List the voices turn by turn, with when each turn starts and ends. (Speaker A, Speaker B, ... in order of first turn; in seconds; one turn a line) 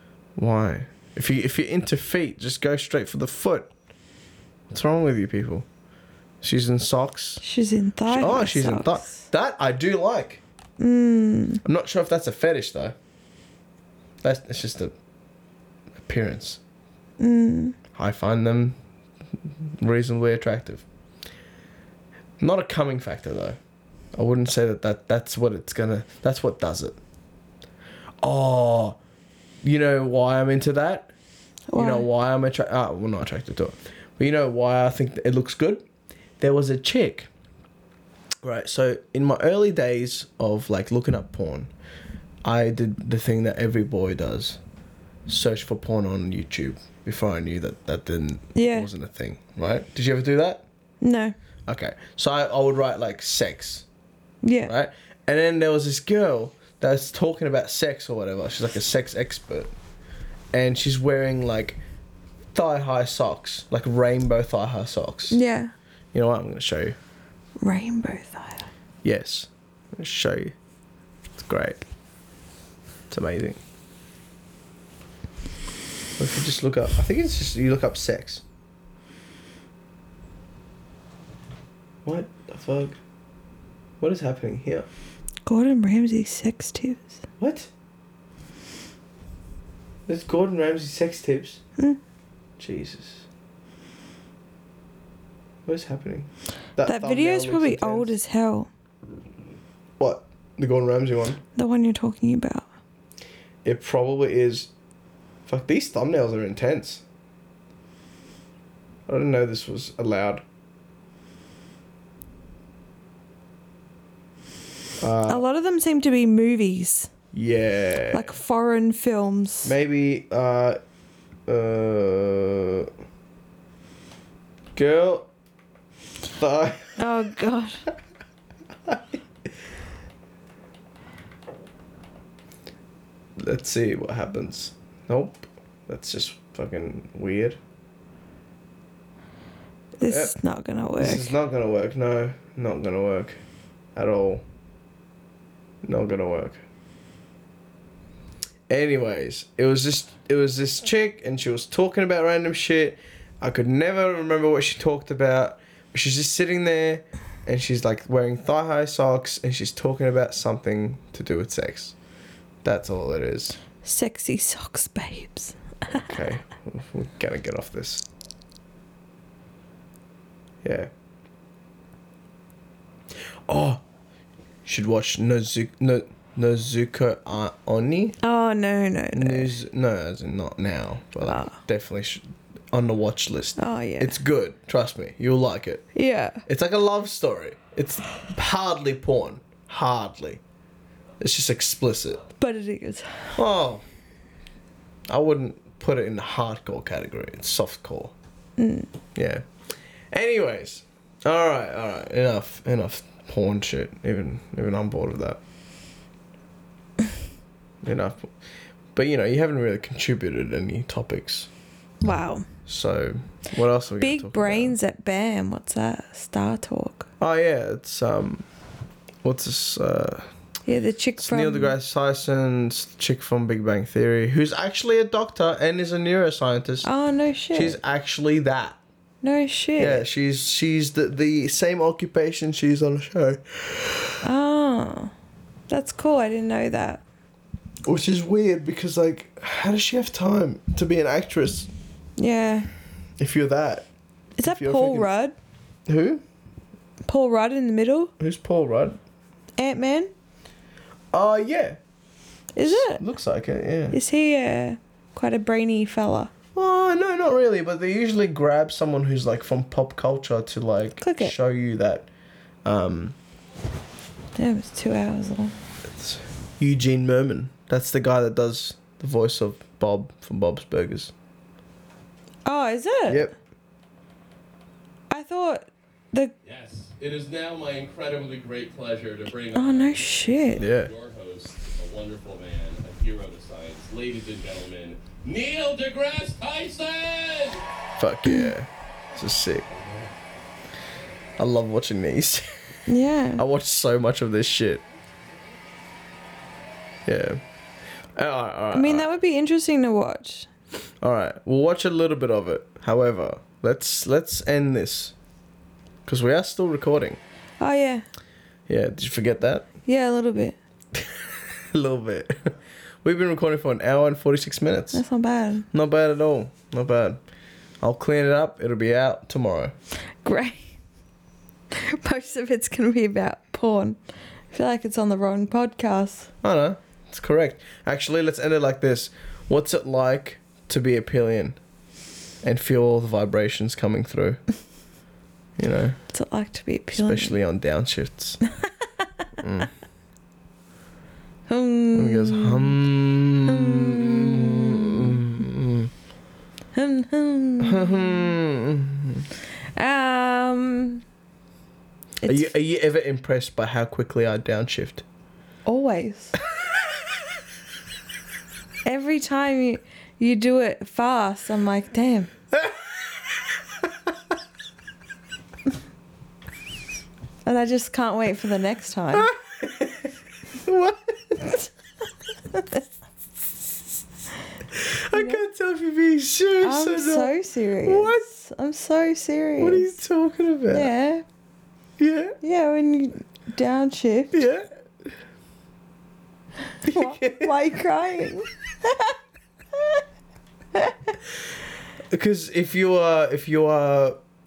Speaker A: 0.4-3.7
Speaker A: 4.7-5.6
Speaker A: 6.4-7.4
Speaker B: 7.4-9.1
Speaker A: 8.1-10.4
Speaker B: 10.8-11.6
Speaker A: 11.6-12.9
Speaker A: 14.2-14.9
Speaker A: 16.0-16.6
Speaker B: 17.2-17.8
Speaker A: 17.9-18.8
Speaker A: 19.8-20.8
Speaker A: 22.4-23.6
Speaker A: 24.1-27.0
Speaker A: 28.2-29.0
Speaker A: 29.6-31.1
Speaker B: 31.7-32.1
Speaker A: 31.8-35.8
Speaker A: 36.4-37.3
Speaker A: 38.4-41.7
Speaker A: 42.4-44.6
Speaker A: 45.3-50.6
Speaker B: 48.5-48.9
Speaker B: 51.0-51.3
Speaker A: 51.6-53.8
Speaker B: 54.4-54.7
Speaker A: 54.6-59.7
Speaker A: 60.5-61.8
Speaker A: 62.5-65.4
Speaker B: 65.3-65.7
Speaker A: 66.1-67.0
Speaker B: 67.6-68.7
Speaker A: 69.0-70.5
Speaker A: 71.4-71.8
Speaker A: 73.1-73.6
Speaker A: 76.2-78.4
Speaker A: 82.0-83.0
Speaker A: 84.0-84.9
Speaker B: 85.5-87.2
Speaker A: 87.4-87.7
Speaker A: 90.1-91.6
Speaker A: 92.6-93.2
Speaker A: 95.7-98.1
Speaker B: 96.8-98.7
Speaker A: 100.0-101.4
Speaker B: 101.5-102.7
Speaker A: 103.6-104.7
Speaker A: 105.5-107.0
Speaker A: 109.1-110.4
Speaker A: 115.0-115.4
Speaker B: 115.3-117.1
Speaker A: 117.3-118.3
Speaker B: 118.1-119.7
Speaker A: 119.6-120.8
Speaker A: 121.5-122.9
Speaker A: 124.7-125.3
Speaker A: 126.4-127.2
Speaker B: 127.0-127.8
Speaker A: 128.9-129.2
Speaker A: 133.4-137.6
Speaker B: 140.0-141.3
Speaker A: 140.0-140.3
Speaker A: 141.0-143.4
Speaker A: 143.9-144.4
Speaker A: 145.8-146.6
Speaker A: 148.7-161.9
Speaker A: 162.6-163.6
Speaker B: 163.8-166.1
Speaker A: 165.9-168.0
Speaker A: 170.6-170.9
Speaker A: 173.5-173.8
Speaker A: 174.7-178.2
Speaker B: 178.2-179.5
Speaker A: 179.1-185.9
Speaker B: 181.2-181.5
Speaker B: 183.6-184.1
Speaker B: 185.9-186.4
Speaker A: 186.4-190.4
Speaker A: 191.2-192.2
Speaker B: 192.4-193.3
Speaker A: 193.3-193.8
Speaker A: 195.1-198.1
Speaker B: 198.6-198.9
Speaker A: 199.1-199.4
Speaker A: 200.1-205.4
Speaker A: 207.8-208.3
Speaker A: 208.9-211.5
Speaker B: 212.0-212.4
Speaker A: 212.7-214.7
Speaker B: 214.0-217.1
Speaker A: 217.2-218.4
Speaker A: 219.2-220.3
Speaker B: 220.7-221.7
Speaker A: 221.2-226.9
Speaker B: 226.8-227.8
Speaker A: 227.5-228.8
Speaker B: 229.2-230.0
Speaker A: 229.8-234.2
Speaker B: 234.2-235.1
Speaker B: 235.7-237.0
Speaker A: 237.8-241.7
Speaker B: 242.2-242.7
Speaker A: 243.2-243.9
Speaker B: 244.4-245.3
Speaker A: 244.4-245.1
Speaker A: 245.9-246.2
Speaker B: 247.1-248.1
Speaker A: 248.2-249.0
Speaker B: 249.6-250.1
Speaker A: 251.1-251.8
Speaker B: 252.6-253.0
Speaker A: 252.6-254.0
Speaker B: 253.9-256.3
Speaker A: 256.5-262.1
Speaker B: 261.0-261.3
Speaker A: 262.6-263.1
Speaker B: 264.4-265.5
Speaker A: 265.9-271.1
Speaker B: 272.4-273.3
Speaker A: 273.1-273.3
Speaker B: 275.1-276.3
Speaker C: 276.4-287.6
Speaker B: 279.5-280.6
Speaker A: 280.6-280.9
Speaker A: 288.0-289.6
Speaker C: 289.7-290.1
Speaker A: 291.4-292.5
Speaker B: 292.9-293.4
Speaker A: 293.4-294.8
Speaker A: 297.1-297.4
Speaker A: 298.1-299.1
Speaker B: 298.7-300.5
Speaker A: 301.0-305.1
Speaker A: 306.1-307.2
Speaker B: 307.6-308.0
Speaker A: 308.7-309.7
Speaker B: 309.9-310.6
Speaker A: 311.7-312.5
Speaker A: 313.0-315.0
Speaker B: 314.9-315.6
Speaker A: 315.7-317.2
Speaker A: 317.8-319.7
Speaker B: 320.2-320.7
Speaker B: 321.7-324.0
Speaker B: 324.5-326.3
Speaker A: 326.4-331.6
Speaker A: 332.4-334.4
Speaker A: 335.6-336.0
Speaker B: 336.1-337.3
Speaker A: 336.9-338.4
Speaker A: 339.4-339.7
Speaker B: 341.5-342.7
Speaker A: 341.9-345.9
Speaker B: 343.5-345.2
Speaker B: 346.7-348.1
Speaker A: 347.6-349.2
Speaker B: 349.8-351.0
Speaker B: 352.2-352.5
Speaker A: 352.2-355.0
Speaker B: 355.6-356.3
Speaker B: 358.8-362.3
Speaker B: 367.4-369.3
Speaker A: 369.2-370.0
Speaker A: 370.6-371.4
Speaker B: 372.5-372.8
Speaker A: 374.8-378.2
Speaker B: 375.1-375.4
Speaker B: 376.6-379.9
Speaker A: 379.6-380.9
Speaker B: 380.7-381.2
Speaker A: 382.0-382.4
Speaker B: 382.4-384.3
Speaker A: 384.3-384.7
Speaker B: 386.8-389.1
Speaker A: 386.9-387.5
Speaker A: 392.1-394.2